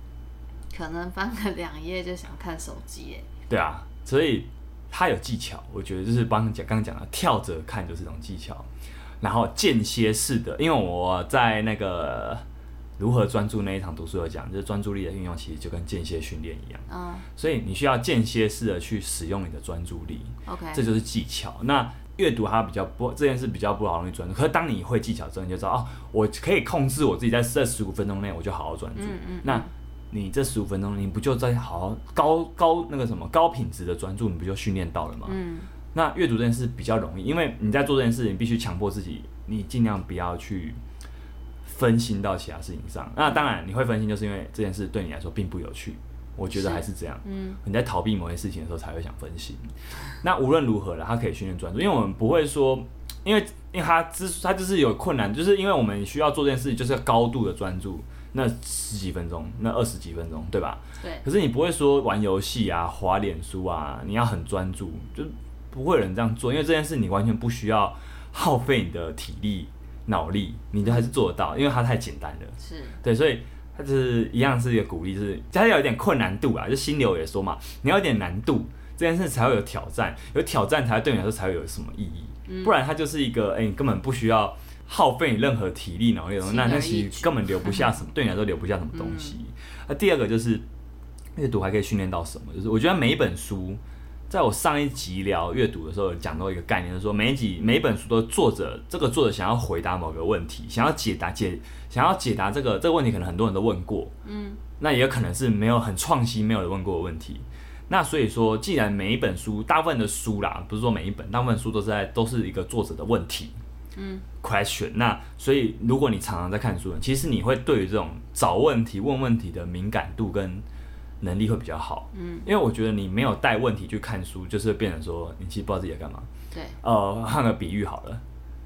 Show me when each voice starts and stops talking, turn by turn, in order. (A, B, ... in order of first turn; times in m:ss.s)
0:00.7-0:03.2 A
0:03.5-0:08.7 B
0:09.2-0:12.4 B
0:13.0-0:16.8 B
0:16.9-0:17.3 A
0:17.4-0:35.4 B
0:20.4-0:20.8 A
0:29.0-0:29.7 A
0:35.2-0:35.7 A
0:35.9-0:40.8 B
0:41.6-0:49.7 B
0:46.5-0:47.6 A
0:50.2-1:30.6 B
1:12.6-1:13.0 A
1:22.5-1:22.7 A
1:26.4-1:27.9 A
1:28.9-1:29.3 A
1:31.3-1:44.1 B
1:44.2-1:44.6 A
1:44.8-1:53.5 B
1:53.9-1:54.2 A
1:54.4-2:00.6 B
2:01.2-2:06.3 B
2:02.1-2:02.5 A
2:06.5-2:06.8 A
2:06.8-2:08.2 B